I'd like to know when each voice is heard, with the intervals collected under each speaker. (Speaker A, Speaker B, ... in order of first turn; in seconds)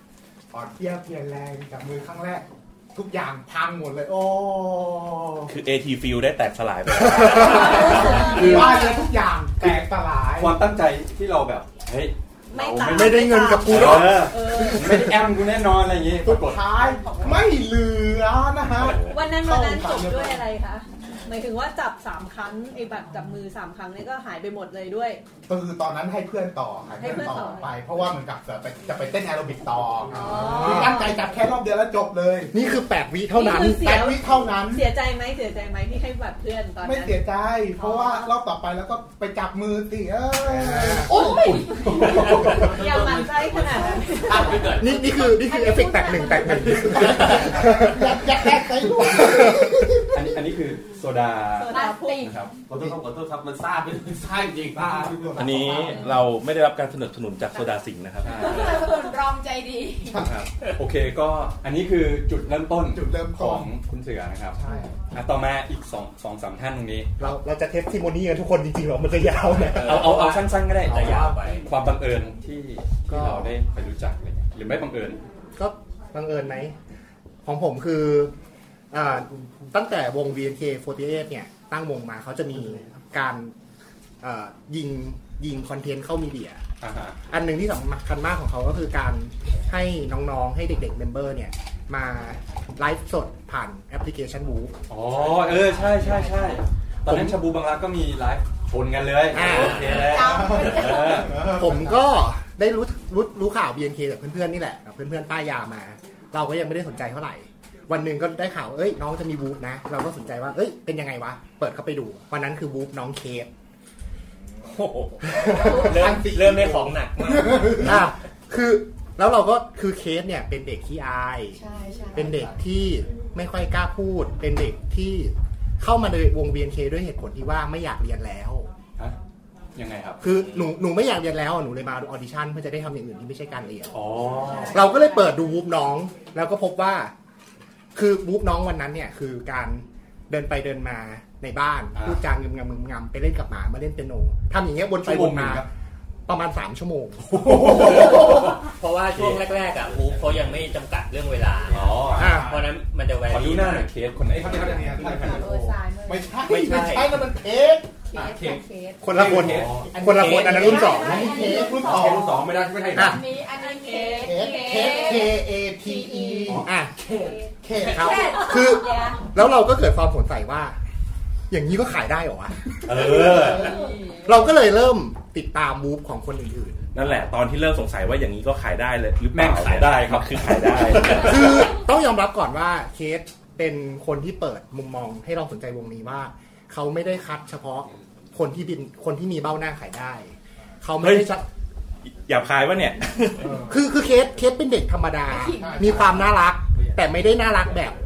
Speaker A: 0.5-5.5, 7.3-10.7, 16.2-20.4, 25.5-32.5, 33.7-34.9, 36.8-41.2, 46.7-50.3, 54.8-56.2, 60.1-60.4, 62.8-63.8, 64.5-65.0, 100.2-102.0, 115.4-117.9, 152.1-152.7, 154.3-158.6, 159.9-162.4, 164.2-166.7, 167.6-168.3, 193.4-193.8, 195.3-196.4
Speaker B: 5.5-8.3, 18.8-19.2, 55.4-58.8, 176.9-181.7, 191.0-191.3, 192.1-193.6
Speaker C: 7.7-8.9, 16.7-17.4, 30.2-31.1, 37.8-38.1, 41.0-44.7, 45.3-47.1, 51.7-52.5, 58.3-60.2, 99.5-101.5, 121.6-122.5, 134.3-135.3, 155.0-156.4, 158.1-159.1, 160.5-162.4, 162.9-169.2, 173.1-174.4, 195.3-196.1
Speaker D: 8.3-8.8, 9.6-16.7, 40.7-42.6, 50.1-52.5, 58.2-58.9, 60.2-64.6, 65.1-67.1, 69.7-75.2, 86.8-87.2, 94.9-101.5, 129.8-130.7, 133.9-134.8, 141.9-142.2, 145.0-145.7, 147.4-148.3, 149.1-149.5, 151.7-152.5, 153.3-154.9, 159.2-159.9, 172.8-173.8, 179.3-181.4
Speaker E: 12.5-15.1, 19.1-25.2, 27.0-27.7, 30.1-31.1, 33.3-37.2, 37.8-38.3, 41.2-44.7, 51.6-52.3, 121.7-122.1, 155.7-156.1, 163.5-165.3, 168.7-169.1
Speaker F: 12.8-15.1, 30.3-31.0, 32.5-34.1, 40.5-41.1, 44.8-49.9, 67.2-70.2, 73.1-73.5, 75.5-76.7, 77.4-78.3, 78.9-83.5, 84.2-86.6, 87.3-94.8, 97.0-97.4, 99.3-99.9, 101.3-113.5, 117.7-121.6, 122.1-128.7, 130.2-134.0, 134.7-137.1, 137.9-145.7, 146.3-148.5, 152.1-152.6, 159.0-161.4, 162.9-163.2, 166.5-166.9, 167.8-170.8, 171.5-173.3, 174.2-176.9, 181.0-191.4, 193.7-198.0
Speaker G: 42.0-45.3, 52.7-55.5
Speaker H: 69.8-71.7, 99.6-100.0, 114.6-117.9, 147.9-153.9, 156.4-157.1, 160.1-160.8
Speaker I: 154.2-155.6, 158.2-158.5, 159.1-159.8, 161.1-163.3, 166.5-167.1